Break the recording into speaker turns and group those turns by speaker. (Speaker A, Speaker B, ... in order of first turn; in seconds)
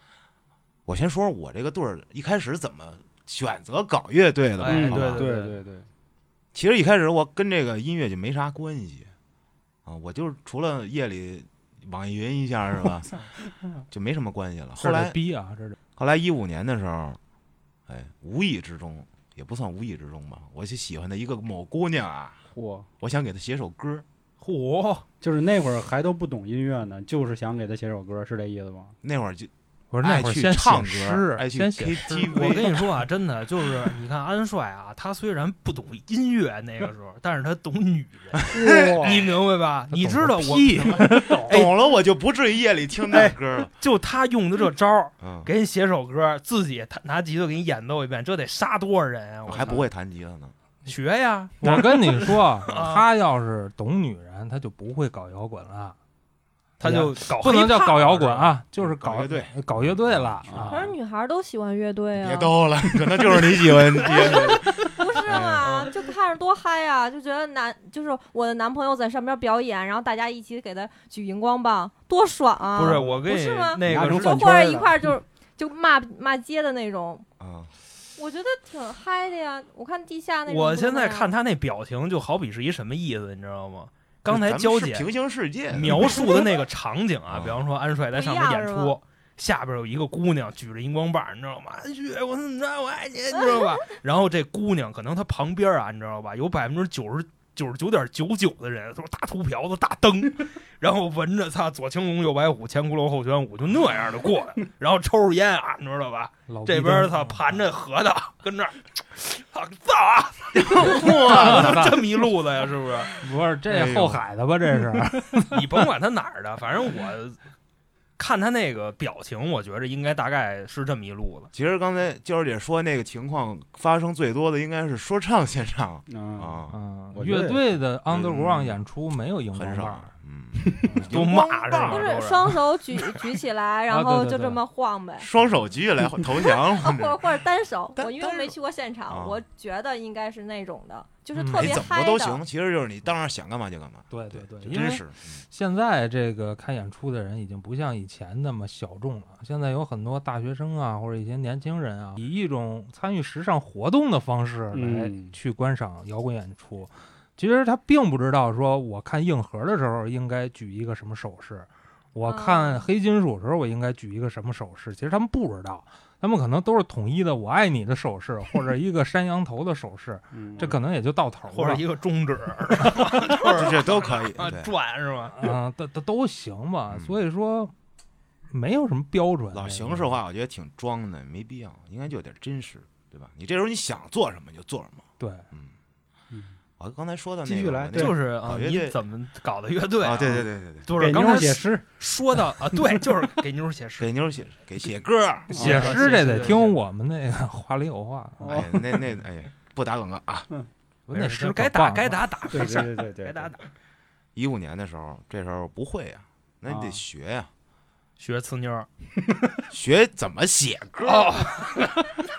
Speaker A: 0.8-5.2, 6.5-9.1, 9.8-13.2, 13.9-15.2, 15.9-17.2, 17.9-22.4, 23.0-24.0, 29.0-32.8, 38.4-39.3, 41.4-43.7, 45.2-45.5, 49.5-50.5, 58.8-60.7, 62.1-65.6, 77.4-77.7, 84.3-86.4, 87.3-87.6, 110.5-112.2, 113.7-114.2, 121.5-126.8, 128.1-128.8, 129.5-132.1, 135.2-137.4, 137.9-139.4, 141.5-145.4, 173.5-174.7, 176.9-177.2, 179.5-185.7, 186.8-189.0, 190.0-190.9, 194.0-195.7, 198.4-200.5, 204.3-207.5, 209.7-211.4
Speaker B: 4.6-5.6, 24.4-25.1, 32.3-41.7, 43.1-49.9, 50.9-53.0, 56.8-58.6, 65.6-66.0, 72.7-74.5, 80.5-85.1, 85.7-113.2, 115.5-117.4, 118.2-121.5, 131.1-132.6, 171.5-175.6, 187.9-194.1, 195.5-196.8, 201.1-203.6, 208.2-208.9, 211.0-212.2
Speaker C: 4.6-5.9, 22.5-22.9, 25.2-28.9, 38.5-39.2, 60.5-60.8, 72.8-73.2, 73.8-75.1, 126.1-127.7, 154.7-155.3, 170.3-170.7, 186.3-186.6, 187.4-188.2, 191.0-191.8, 195.5-196.6, 198.4-198.8, 202.5-203.5, 206.7-207.0
Speaker D: 14.8-15.8, 29.9-32.6, 39.9-41.6, 51.6-56.0, 56.8-60.9, 106.5-107.4, 111.2-112.0, 113.2-115.8, 126.7-130.1, 130.9-131.2, 133.9-134.6, 141.3-141.9, 144.1-171.8, 172.8-173.4, 175.3-177.7, 178.5-180.1, 185.2-185.4, 195.5-198.6, 201.1-202.2
Speaker E: 60.7-62.5, 63.4-77.3, 78.2-81.3, 88.1-89.0, 131.8-135.3, 136.4-142.4, 162.2-162.9